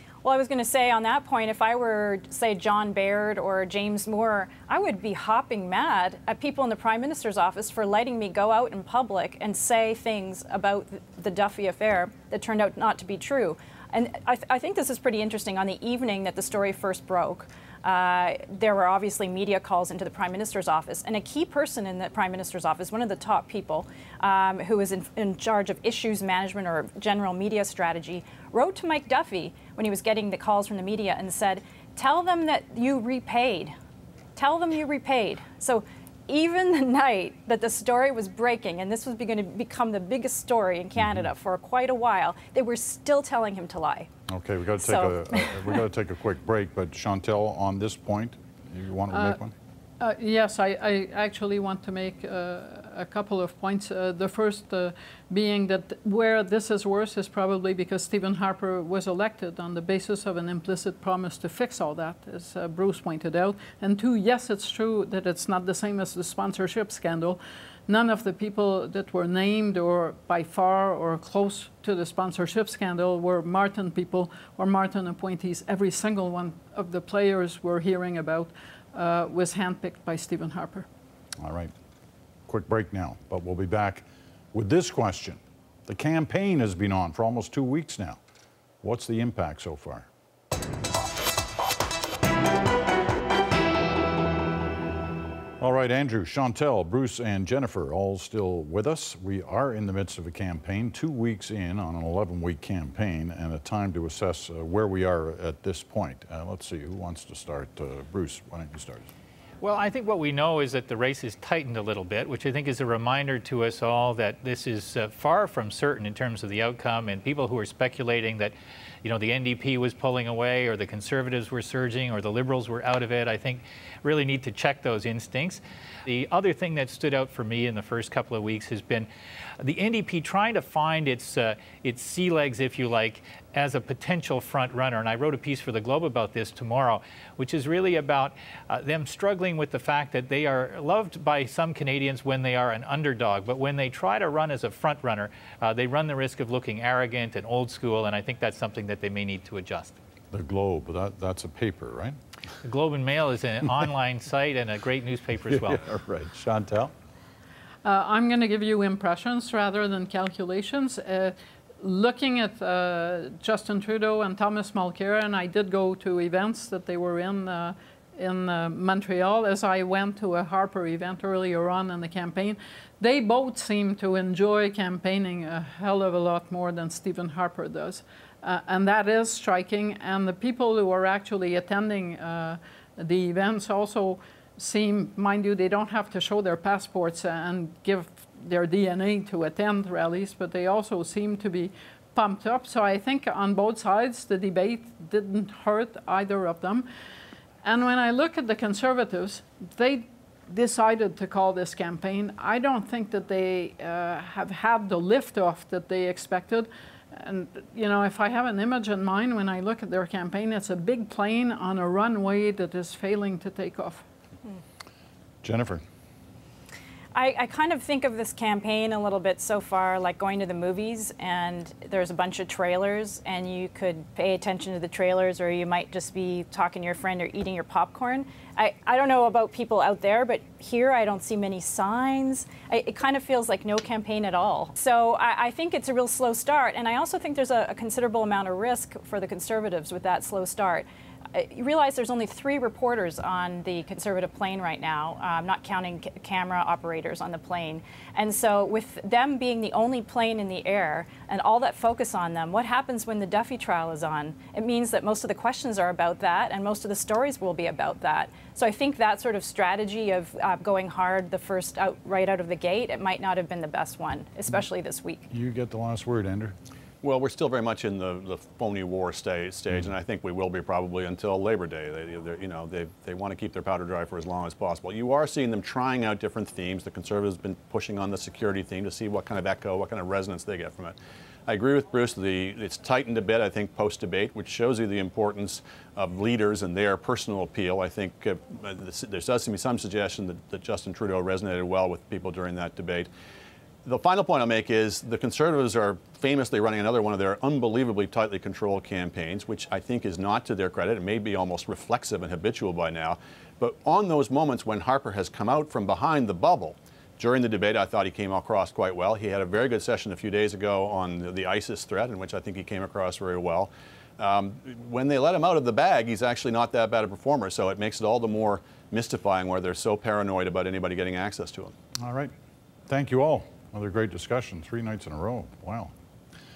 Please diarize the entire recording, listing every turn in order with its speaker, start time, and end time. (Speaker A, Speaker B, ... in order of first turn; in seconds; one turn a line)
Speaker A: 0.2-33.7
Speaker A: 34.4-44.1
Speaker B: 44.3-49.5
Speaker A: 44.8-45.8
Speaker C: 49.1-49.4
Speaker C: 50.0-80.8
Speaker B: 81.4-81.7
Speaker B: 82.5-88.2
Speaker B: 88.8-90.1
Speaker B: 95.6-109.1
Speaker D: 109.6-129.1
Speaker D: 129.6-150.0
Speaker B: 150.3-152.2
Speaker D: 152.6-155.8
Speaker B: 155.5-156.9
Speaker C: 157.8-196.9
Speaker C: 197.6-214.0
Speaker B: 215.4-215.8
Speaker A: 217.1-265.2
Speaker B: 265.3-266.5
Speaker E: 267.0-280.9
Speaker E: 281.5-293.1
Speaker E: 293.9-321.7
Speaker B: 322.0-322.3
Speaker B: 322.9-325.9